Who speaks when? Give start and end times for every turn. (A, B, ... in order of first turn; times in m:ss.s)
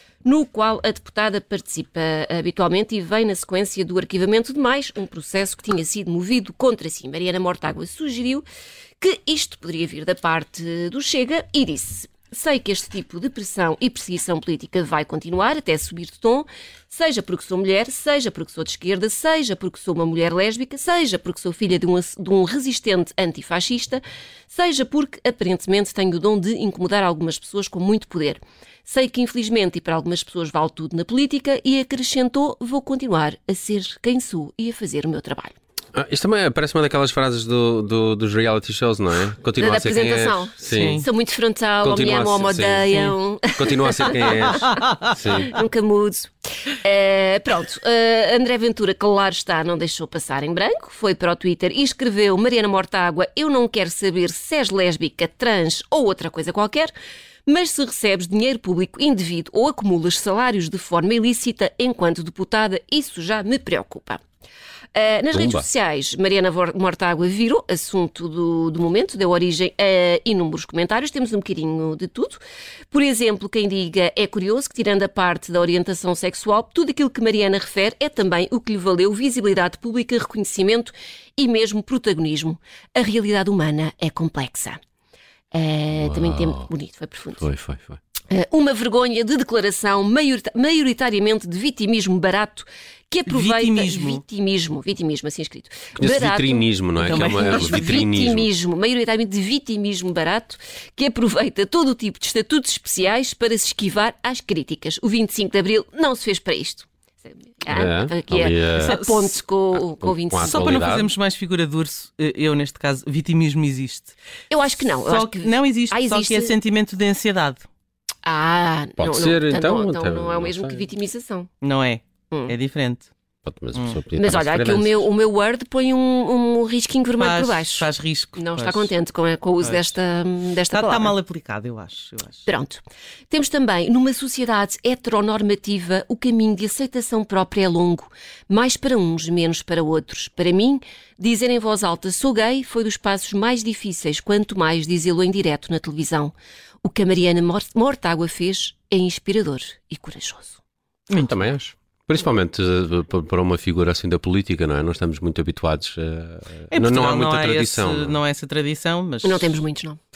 0:00.2-0:08.4 A
0:09.0-0:35.5 A
0:35.9-0:41.1 B
0:39.6-0:44.7 A
0:40.7-0:41.1 C
0:41.8-0:45.5 B
0:45.4-0:56.9 A
0:57.5-1:04.2 A
1:05.0-1:12.4 A
1:05.3-1:05.7 B
1:12.9-1:24.8 A
1:25.5-1:27.4 A
1:26.0-1:26.7 B
1:27.4-1:28.0 B
1:28.3-1:50.8 A
1:33.3-1:34.2 C
1:36.0-1:38.5 B
1:37.0-1:38.1 C
1:47.7-1:49.0 B
1:48.8-1:49.3 C
1:50.0-1:51.1 B
1:50.4-1:54.1 C
1:54.5-1:56.6 A
1:54.9-1:57.6 C
1:58.2-2:01.5 A
1:59.0-2:00.8 B
2:01.6-2:03.1 C
2:03.4-2:05.0 B
2:03.8-2:04.0 C
2:04.2-2:11.2 A
2:07.2-2:08.9 C
2:10.7-2:12.4 C
2:12.5-2:30.6 A
2:31.1-2:31.4 C
2:31.2-2:38.2 B
2:36.7-2:39.6 C
2:39.2-2:40.0 A